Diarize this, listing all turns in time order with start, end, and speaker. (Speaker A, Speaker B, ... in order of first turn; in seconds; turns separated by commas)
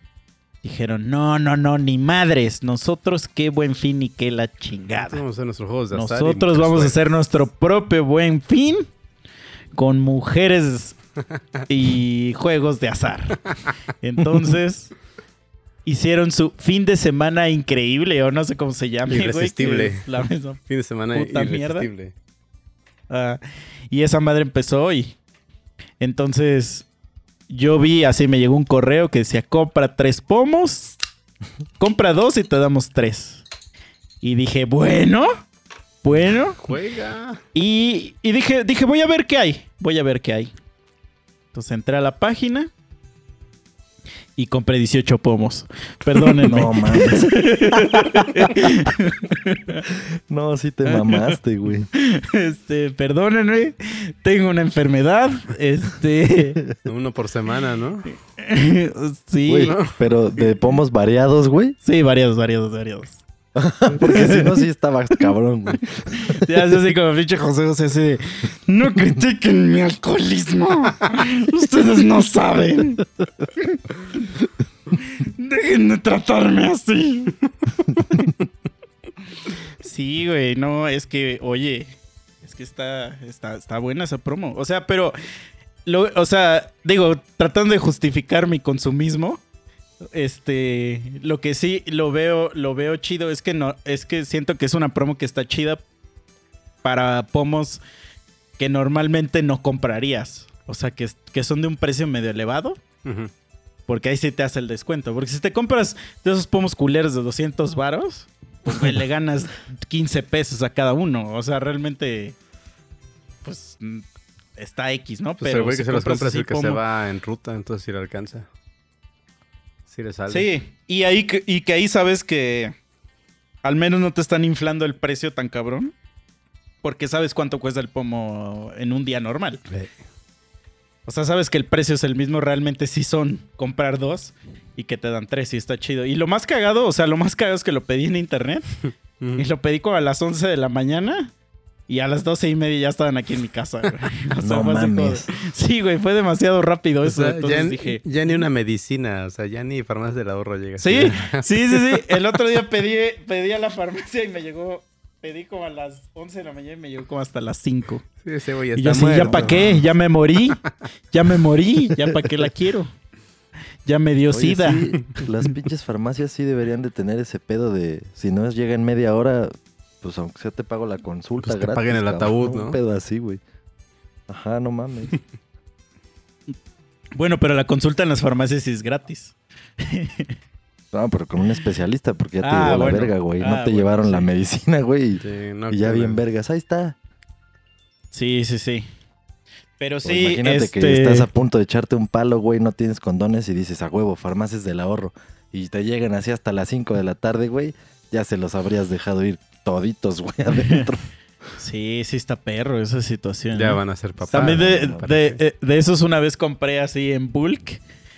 Speaker A: 0.6-5.2, Speaker B: 5.0-7.0, Speaker A: 5.9-8.9, Speaker A: 9.7-11.0, Speaker A: 11.7-13.5, Speaker A: 14.0-14.9, Speaker A: 15.8-21.9, Speaker B: 19.1-22.1, Speaker A: 23.1-25.2, Speaker A: 26.0-26.9, Speaker A: 27.5-31.0, Speaker A: 31.8-33.4, Speaker A: 34.2-35.4, Speaker A: 36.0-36.6, Speaker B: 36.6-37.4, Speaker A: 37.5-40.5, Speaker A: 41.5-42.7, Speaker A: 44.4-49.8, Speaker C: 46.3-48.0, Speaker C: 49.9-51.9, Speaker A: 50.9-51.4, Speaker A: 51.9-56.6, Speaker B: 56.8-58.1, Speaker A: 58.4-59.8, Speaker C: 59.5-61.8, Speaker A: 61.8-63.2, Speaker C: 63.5-66.5, Speaker A: 64.0-64.5, Speaker A: 66.3-73.0, Speaker A: 75.0-77.4, Speaker A: 79.8-85.2, Speaker A: 85.8-89.4, Speaker A: 90.1-95.8, Speaker A: 96.8-97.8, Speaker A: 98.6-102.8, Speaker B: 103.0-103.3, Speaker A: 103.9-112.3, Speaker A: 113.4-114.0, Speaker A: 114.6-116.8, Speaker B: 115.4-118.5, Speaker B: 119.9-120.5, Speaker A: 120.3-122.7, Speaker A: 123.6-125.9, Speaker A: 126.8-129.6, Speaker A: 131.1-138.8, Speaker A: 139.3-141.3, Speaker A: 141.9-148.4, Speaker C: 144.4-145.3, Speaker B: 147.0-152.0, Speaker A: 150.8-158.0, Speaker B: 158.2-159.8, Speaker A: 158.8-162.9, Speaker C: 159.2-159.8, Speaker A: 163.8-165.0, Speaker C: 164.3-173.4, Speaker B: 171.4-172.8, Speaker C: 174.3-175.1, Speaker A: 177.2-180.3, Speaker C: 180.9-186.9, Speaker A: 182.4-184.3, Speaker B: 185.2-186.2, Speaker A: 188.1-188.9, Speaker A: 189.8-191.3, Speaker C: 190.0-201.0, Speaker A: 200.6-200.9, Speaker A: 201.6-203.8, Speaker B: 203.5-205.4, Speaker C: 204.2-205.0, Speaker A: 204.3-207.8